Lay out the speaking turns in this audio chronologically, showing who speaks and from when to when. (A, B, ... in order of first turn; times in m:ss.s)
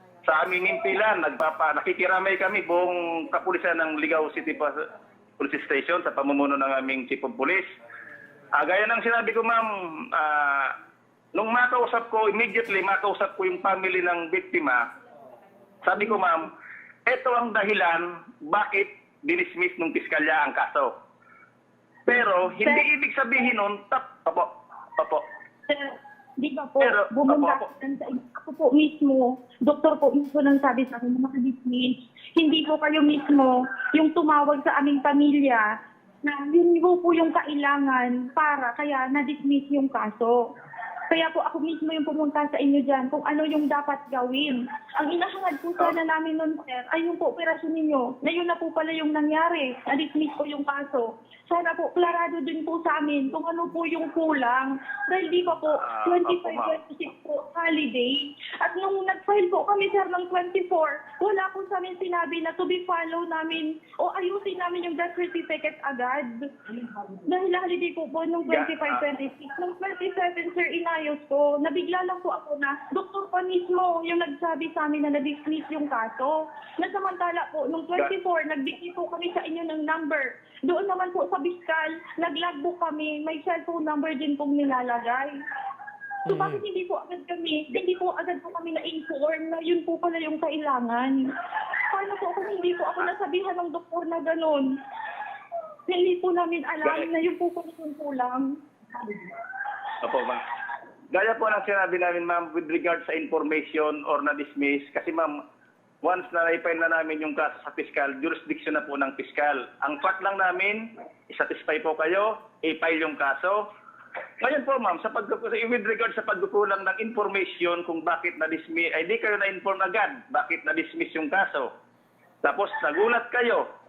0:00.2-0:04.8 A
0:05.4-0:07.6 A
0:08.5-0:10.7 A
0:11.3-0:14.9 A
0:15.8-0:16.5 A
0:17.0-0:21.0 A
0:22.0-0:25.2 A
0:25.7-0:40.5 B
0:26.8-0:27.7 A
0:41.1-1:25.4 B
0:55.8-0:56.7 A
1:08.5-1:09.0 A
1:26.2-1:31.3 B
1:31.9-1:35.2 B
1:35.9-1:38.6 B
1:40.0-1:40.4 A
1:41.1-1:45.4 A
1:46.0-1:53.7 A
1:54.4-2:01.7 A
2:02.4-2:03.7 A